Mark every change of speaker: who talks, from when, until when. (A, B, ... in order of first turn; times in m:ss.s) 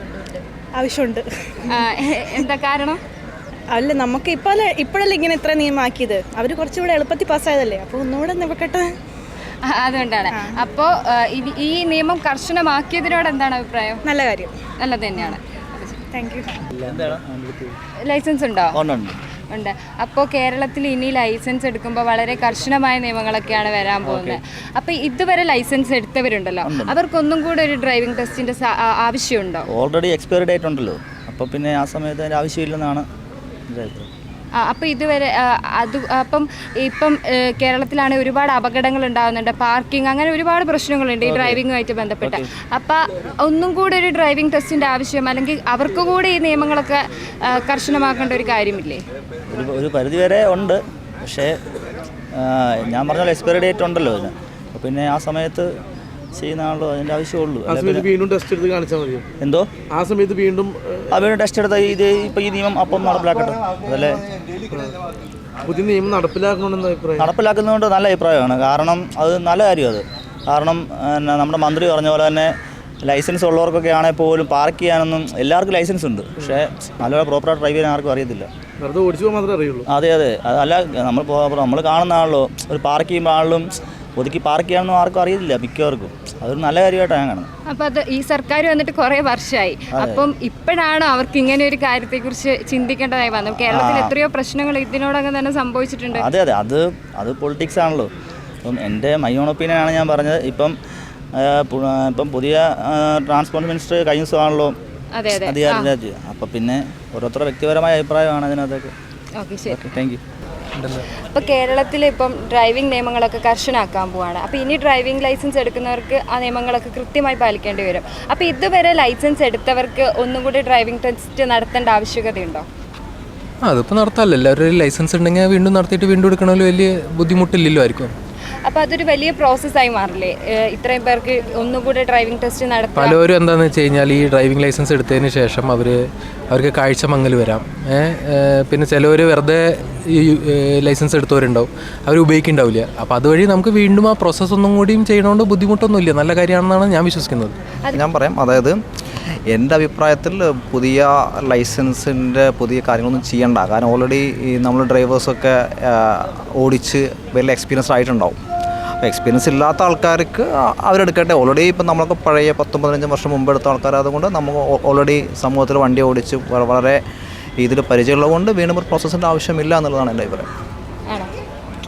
0:00.8-0:01.9 A
0:01.7-0:03.0 B
0:03.7-0:08.9 A
0:09.6-0:14.1 B
0:10.3-0:10.6 A
0:14.1-0:14.6 A
0:14.8-0:16.1 B
0:16.1-0:16.6 A
0:16.8-0:17.6 C
0:18.0-0:18.8 B
0:18.8-0:19.2 C
0:19.5-0:29.7 B
0:26.6-0:27.0 C
0:29.7-0:33.1 C
0:33.7-0:34.1 C
0:34.6-0:49.0 B
0:41.2-0:41.6 C
0:49.5-0:51.5 C
0:52.3-0:55.7 C
0:56.4-0:58.1 C
0:57.7-0:59.3 D
0:59.4-0:59.7 C
0:59.9-1:01.1 D
1:01.1-1:04.3 C
1:04.7-1:05.0 D
1:05.6-1:07.3 D
1:07.2-1:12.5 C
1:13.0-1:18.5 C
1:18.8-1:19.9 D
1:19.9-1:27.5 C
1:27.7-1:36.2 B
1:29.9-1:30.3 C
1:33.7-1:34.1 C
1:36.1-1:38.1 C
1:38.6-1:40.8 C
1:41.4-1:44.7 C
1:45.1-1:45.9 B
1:45.3-1:48.9 C
1:49.4-1:49.8 B
1:49.7-1:50.2 C
1:50.8-1:51.0 E
1:51.2-2:02.6 B
2:03.6-2:08.1 E
2:08.7-2:13.2 B
2:13.0-2:16.0 E
2:16.5-2:27.6 E
2:27.9-2:28.8 F
2:29.5-2:38.4 F
2:39.0-2:47.0 F
2:47.6-2:50.5 F